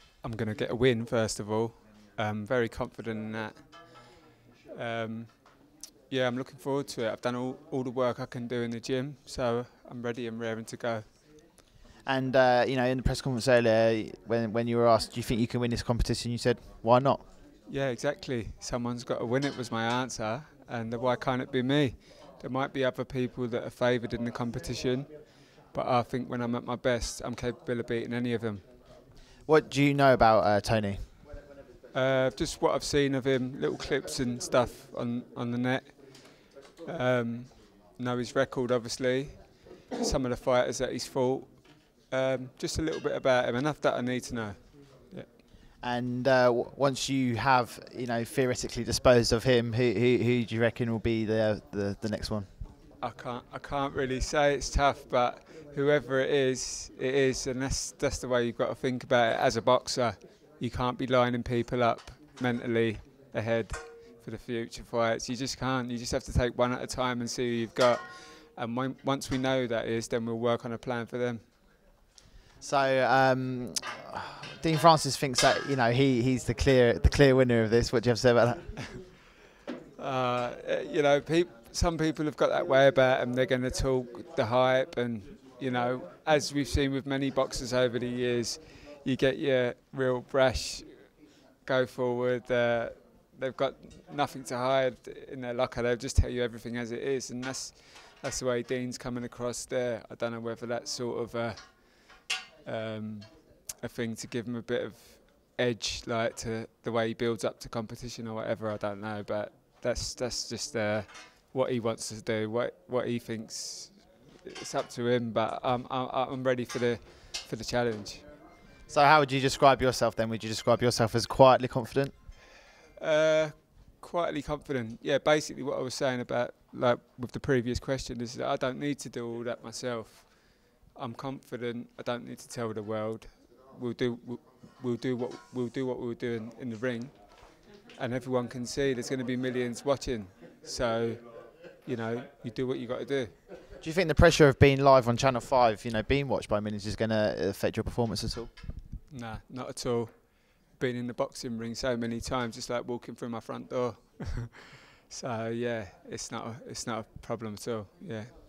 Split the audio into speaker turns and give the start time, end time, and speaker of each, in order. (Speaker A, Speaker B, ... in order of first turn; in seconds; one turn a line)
Speaker A: 0.2-4.2
Speaker A: 4.7-11.2
Speaker B: 12.1-17.3
Speaker A: 17.6-28.7
Speaker B: 29.4-31.0
Speaker A: 31.9-45.3
Speaker B: 45.8-52.5
Speaker A: 53.0-71.5
Speaker B: 72.6-78.9
Speaker A: 80.0-118.2
Speaker B: 118.9-122.1
Speaker A: 123.0-143.4
Speaker B: 143.8-148.5
Speaker A: 149.1-158.4